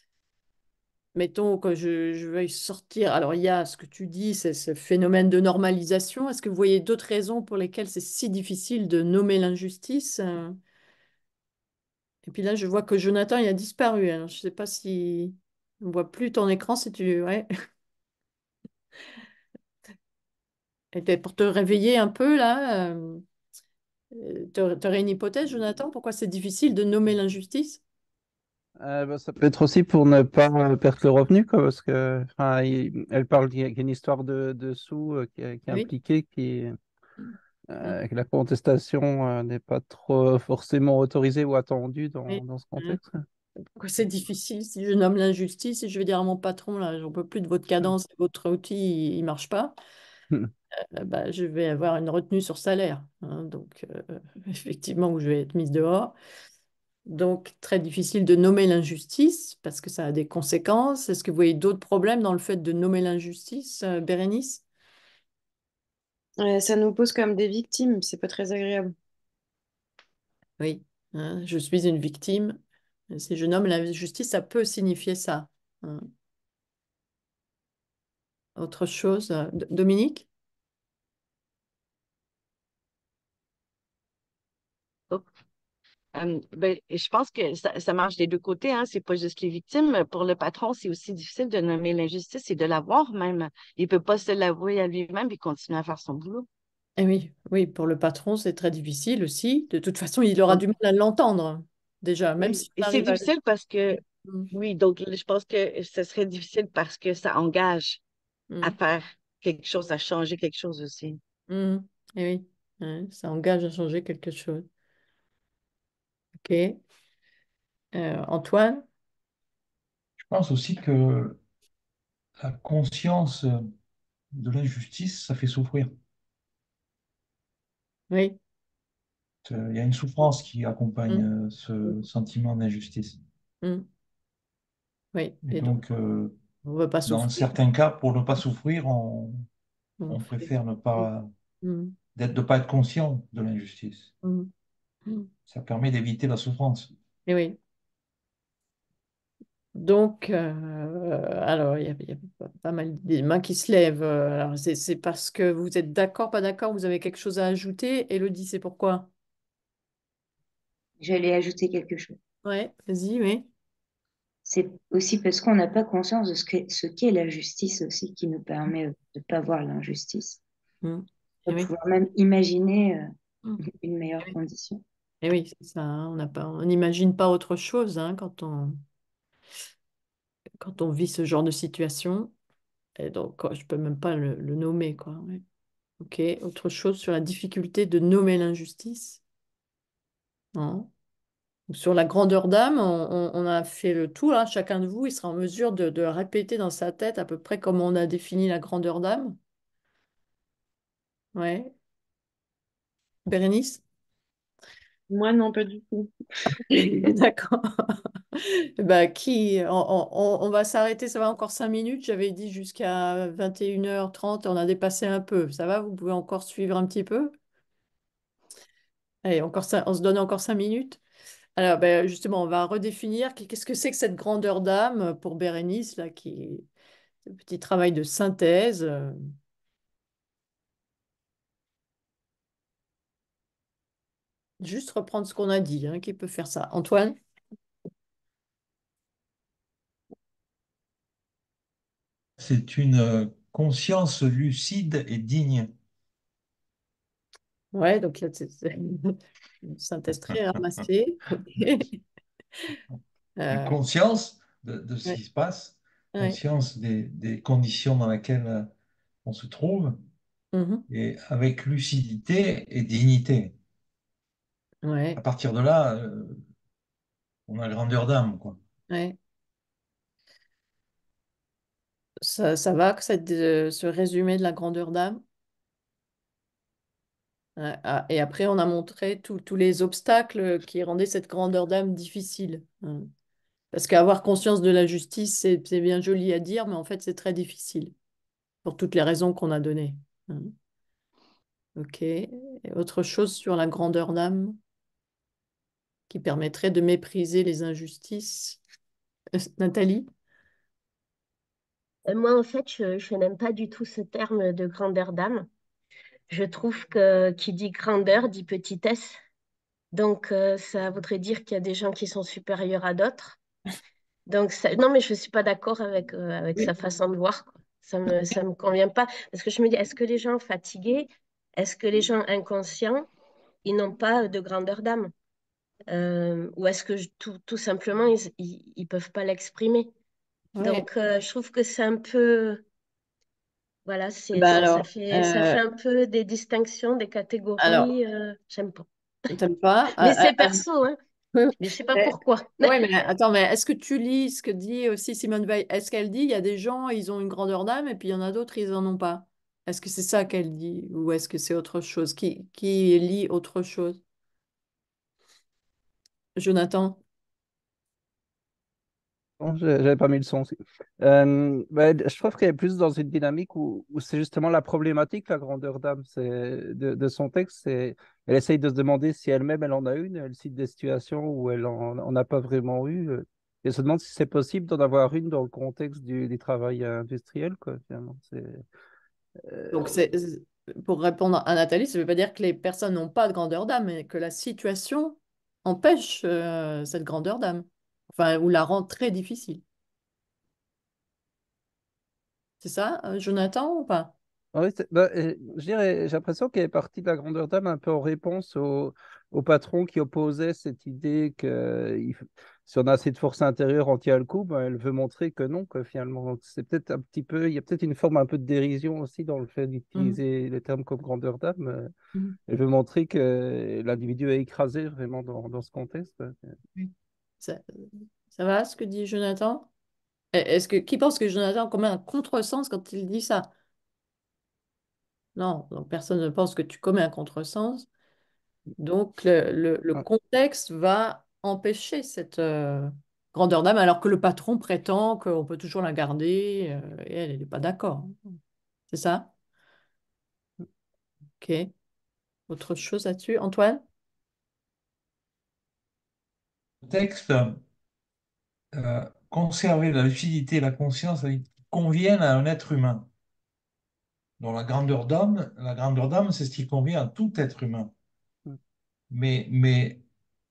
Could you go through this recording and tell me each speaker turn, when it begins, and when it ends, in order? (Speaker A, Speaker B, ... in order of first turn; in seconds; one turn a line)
Speaker A: 1.1-10.6
Speaker A: 12.2-17.5
Speaker A: 20.9-23.2
Speaker A: 24.1-27.8
Speaker B: 28.8-36.8
Speaker B: 37.7-43.2
Speaker A: 42.3-43.0
Speaker A: 43.8-49.8
Speaker A: 51.0-56.1
Speaker A: 57.1-64.6
Speaker C: 66.4-68.9
Speaker A: 70.6-72.6
Speaker A: 73.1-76.0
Speaker A: 78.6-80.3
Speaker D: 86.1-96.5
Speaker A: 97.0-103.3
Speaker D: 102.4-108.0
Speaker A: 103.9-104.5
Speaker A: 108.5-108.8
Speaker D: 108.6-111.2
Speaker A: 111.5-114.7
Speaker A: 116.4-116.8
Speaker A: 117.9-118.8
Speaker E: 120.2-121.4
Speaker E: 122.4-123.6
Speaker E: 124.3-125.9
Speaker A: 128.1-128.4
Speaker E: 129.4-133.2
Speaker A: 135.1-135.8
Speaker E: 135.4-136.4
Speaker A: 136.6-137.6
Speaker E: 137.1-139.4
Speaker A: 140.0-141.1
Speaker E: 140.1-141.3
Speaker A: 141.6-141.9
Speaker E: 142.1-144.1
Speaker A: 144.2-144.5
Speaker E: 145.5-146.9
Speaker A: 147.3-147.6
Speaker A: 149.7-159.1
Speaker F: 161.0-162.2
Speaker A: 162.4-163.5
Speaker F: 164.4-170.4
Speaker A: 170.8-171.7
Speaker F: 171.4-173.1
Speaker F: 173.7-174.8
Speaker A: 175.2-178.8
Speaker A: 180.6-182.3
Speaker A: 183.0-185.4
Speaker A: 186.0-189.2
Speaker A: 190.5-190.9
Speaker A: 191.7-199.4
Speaker A: 201.3-201.7
Speaker A: 203.2-203.8
Speaker C: 205.1-206.1
Speaker A: 206.7-217.3
Speaker C: 206.7-207.1
Speaker A: 219.2-221.0
Speaker A: 221.6-226.7
Speaker A: 227.2-229.2
Speaker A: 234.6-237.1
Speaker E: 242.4-245.7
Speaker A: 247.7-252.0
Speaker A: 253.4-253.8
Speaker E: 253.5-258.7
Speaker E: 259.2-260.0
Speaker A: 260.5-260.9
Speaker E: 260.9-263.6
Speaker A: 264.8-265.2
Speaker E: 265.1-266.4
Speaker E: 267.5-268.6
Speaker A: 268.9-269.2
Speaker A: 272.2-275.2
Speaker A: 277.6-283.1
Speaker A: 283.7-287.9
Speaker A: 288.6-290.5
Speaker A: 291.8-294.6
Speaker A: 296.1-298.6
Speaker A: 299.4-300.1
Speaker G: 302.1-305.5
Speaker G: 306.3-309.2
Speaker G: 309.9-313.4
Speaker G: 314.3-323.1
Speaker G: 323.6-325.1
Speaker G: 325.9-329.9
Speaker A: 330.6-330.9
Speaker G: 330.6-332.6
Speaker G: 333.9-338.9
Speaker A: 334.3-335.6
Speaker A: 337.6-337.9
Speaker A: 339.3-340.6
Speaker G: 340.0-341.0
Speaker A: 341.4-354.0
Speaker G: 341.6-342.8
Speaker A: 356.4-357.0
Speaker B: 359.4-378.6
Speaker B: 379.4-380.0
Speaker A: 379.7-389.6
Speaker A: 392.6-394.1
Speaker B: 394.5-411.9
Speaker A: 409.9-410.2
Speaker B: 412.5-416.5
Speaker A: 416.7-419.7
Speaker A: 420.3-423.5
Speaker A: 425.4-427.9
Speaker A: 428.8-438.1
Speaker A: 438.9-439.3
Speaker A: 441.4-441.7
Speaker A: 442.5-443.8
Speaker E: 446.8-447.6
Speaker E: 448.7-453.1
Speaker E: 454.4-457.9
Speaker E: 459.1-460.0